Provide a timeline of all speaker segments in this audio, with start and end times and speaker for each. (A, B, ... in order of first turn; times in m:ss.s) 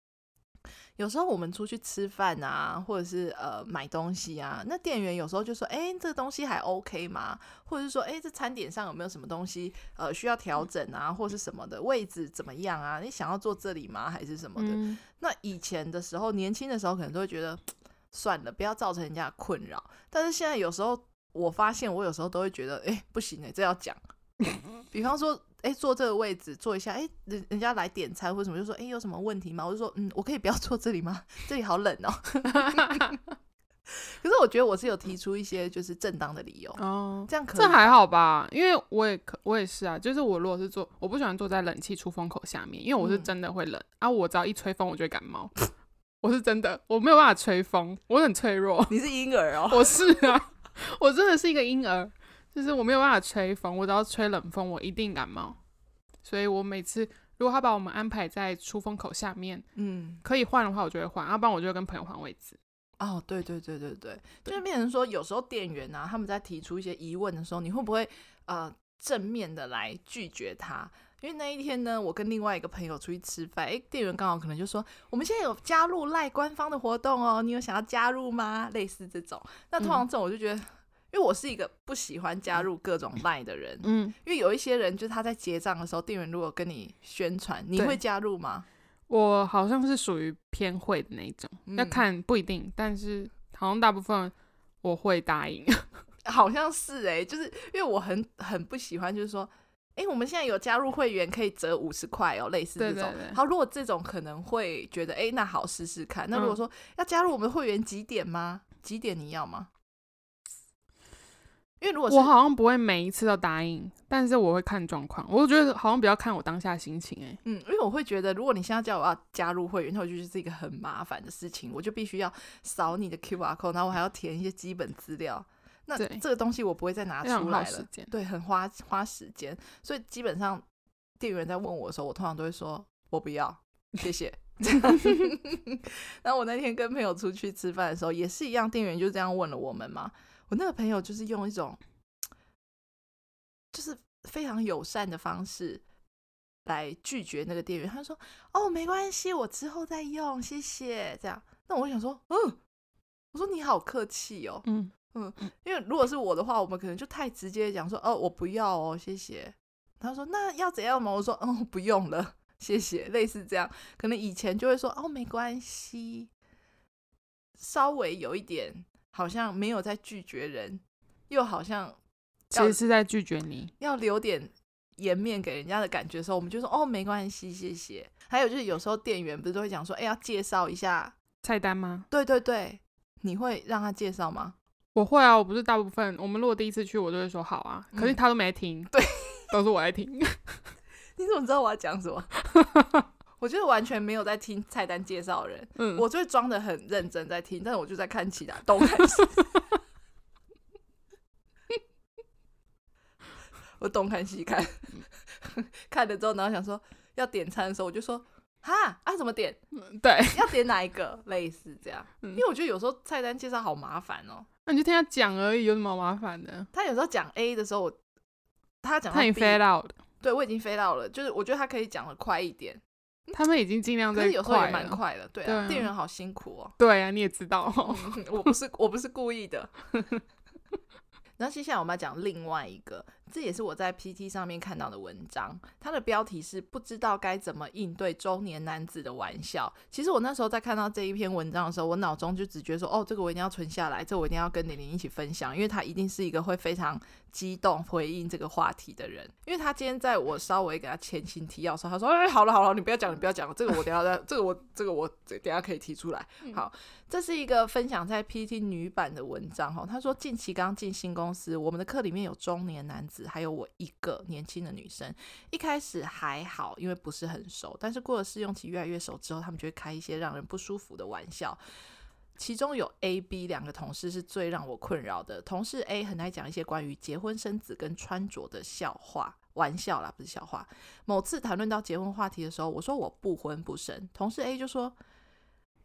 0:01.0-0:24.0 A
0:14.6-0:15.0 B
0:24.9-0:33.2 A
0:32.5-0:33.2 B
0:33.9-0:37.9 A
0:36.8-0:45.5 B
0:43.0-0:43.3 A
0:46.2-0:49.0 B
0:48.9-0:50.0 A
0:49.7-0:55.6 B
0:56.2-0:59.7 B
0:59.8-1:00.2 A
1:00.2-1:02.6 B
1:03.0-1:28.7 A
1:23.8-1:24.2 B
1:29.1-1:35.9 B
1:31.7-1:32.1 A
1:36.2-1:49.7 A
1:42.8-1:43.4 B
1:51.8-1:52.3 A
1:52.1-1:57.4 B
1:57.4-2:10.6 A
2:06.0-2:06.2 B
2:07.2-2:08.1 B
2:11.2-2:21.8 A
2:23.7-2:25.8 A
2:26.7-2:32.6 A
2:33.3-2:46.3 A
2:34.6-2:34.9 B
2:47.6-2:52.0 A
2:52.5-2:53.7 B
2:52.5-2:52.8 A
2:53.8-3:01.2 A
3:01.4-3:02.1 B
3:02.1-3:04.6 A
3:05.0-3:09.0 B
3:08.9-3:09.5 A
3:09.5-3:10.6 B
3:11.2-3:12.3 A
3:12.5-3:13.0 B
3:13.4-3:19.6 A
3:15.8-3:16.0 B
3:23.8-3:29.6 A
3:29.7-3:30.5 B
3:30.3-3:34.5 A
3:34.7-3:36.7 B
3:36.7-3:38.0 A
3:38.8-3:39.6 A
3:39.1-3:40.0 B
3:40.2-3:43.4 A
3:43.3-3:45.9 B
3:44.1-3:46.7 A
3:46.8-3:48.2 B
3:47.8-3:49.7 A
3:51.4-4:31.6 A
4:32.4-4:45.0 A